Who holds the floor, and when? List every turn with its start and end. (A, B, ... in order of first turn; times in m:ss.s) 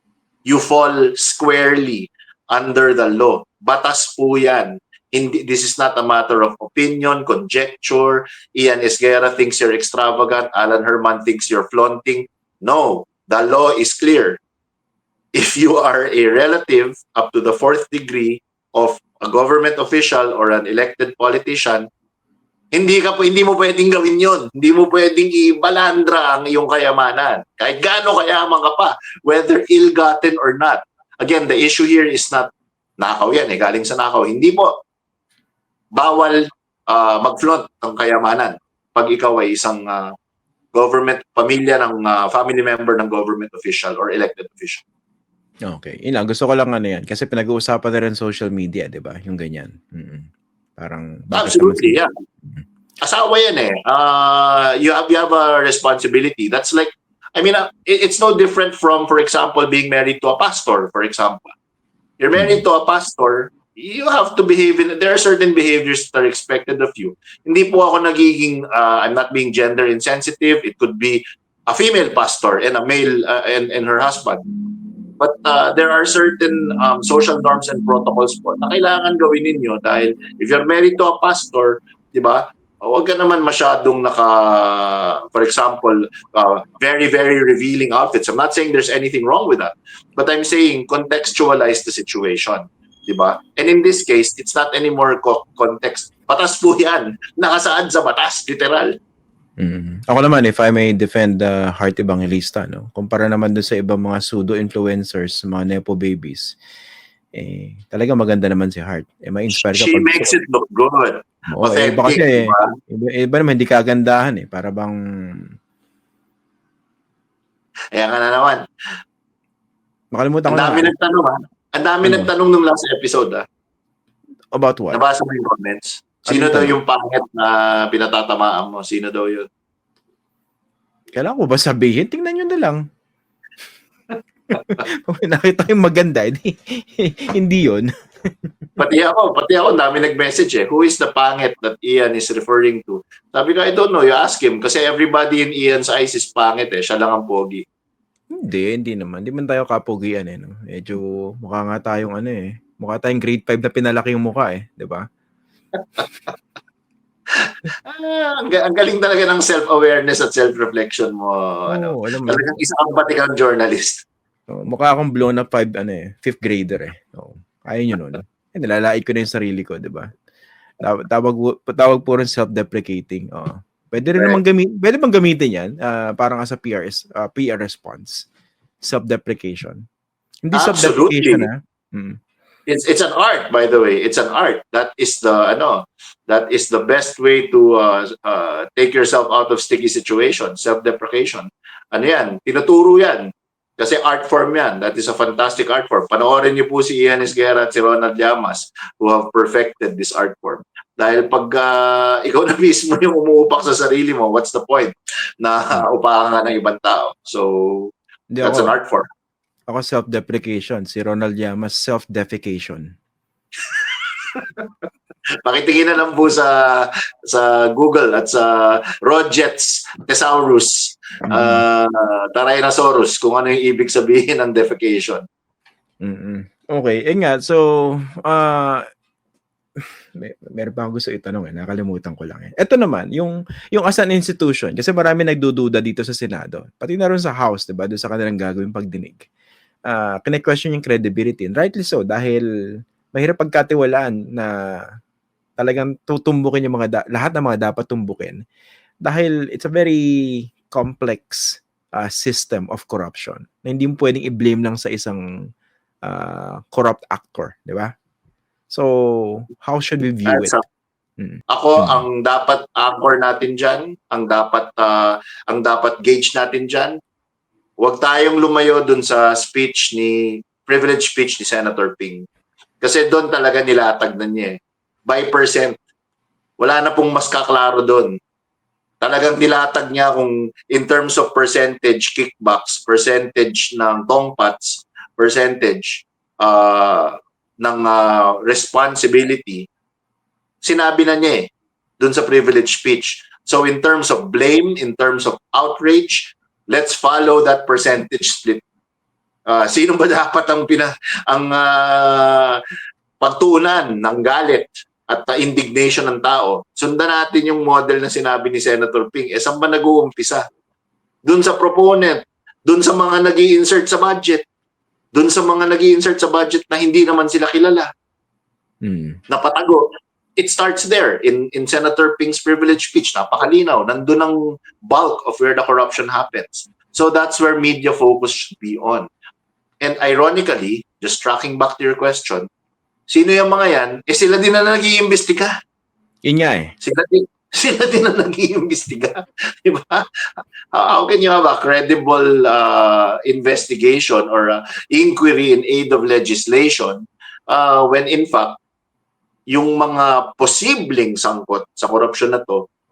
0:00.5-0:14.4 A
0:15.3-0:21.8 A
0:22.7-0:32.4 A
0:33.0-0:34.7 A
0:36.0-0:36.4 A
0:36.9-0:40.0 A
0:40.7-0:44.8 A
0:45.7-0:52.6 B
0:51.3-0:52.1 A
0:53.0-1:01.5 A
1:02.2-1:14.4 A
1:02.3-1:02.6 B
1:15.2-1:38.9 A
1:39.6-1:46.6 B
1:47.4-1:50.4 B
1:49.6-1:52.7 A
1:51.5-1:55.4 B
1:57.9-1:58.6 A
2:00.1-2:00.9 B
2:00.5-2:03.4 A
2:02.0-2:02.3 B
2:04.5-2:05.0 B
2:04.9-2:09.4 A
2:06.3-2:06.8 B
2:11.2-2:12.8 B
2:14.5-2:17.9 B
2:18.8-2:27.6 A
2:28.4-2:35.0 B
2:37.4-2:44.0 A
2:41.7-2:42.4 B
2:44.5-2:50.1 B
2:50.8-2:58.2 B
2:54.1-2:54.4 A
2:58.8-2:59.8 B
3:00.4-3:02.2 B
3:00.5-3:01.5 A
3:02.7-3:27.9 A
3:28.3-3:28.7 B
3:28.4-3:29.0 A
3:29.7-3:32.8 B
3:33.7-3:34.7 A
3:35.4-3:45.2 A
3:41.2-3:41.6 B
3:46.0-3:47.6 B
3:48.2-3:48.8 B
3:49.8-3:59.2 B
3:59.9-4:02.4 B
4:03.1-4:04.5 B
4:05.6-4:08.4 B
4:09.0-4:15.2 B
4:16.0-4:17.9 B
4:18.7-4:20.5 B
4:20.2-4:20.6 A
4:21.2-4:22.0 B
4:21.5-4:26.9 A
4:27.8-4:32.2 A
4:32.8-4:34.5 A
4:35.1-4:35.7 A
4:36.6-4:38.1 A
4:39.0-4:49.6 A
4:50.6-4:51.4 A
4:52.0-4:58.6 A
4:59.5-5:02.6 A
5:03.2-5:10.4 A
5:11.3-5:14.4 A
5:15.1-5:17.9 A
5:18.8-5:19.2 B
5:19.3-5:29.0 A
5:29.8-5:32.4 A
5:33.1-5:35.5 A
5:36.2-5:36.7 B
5:36.8-5:40.0 A
5:40.7-5:48.6 A
5:49.5-5:52.6 A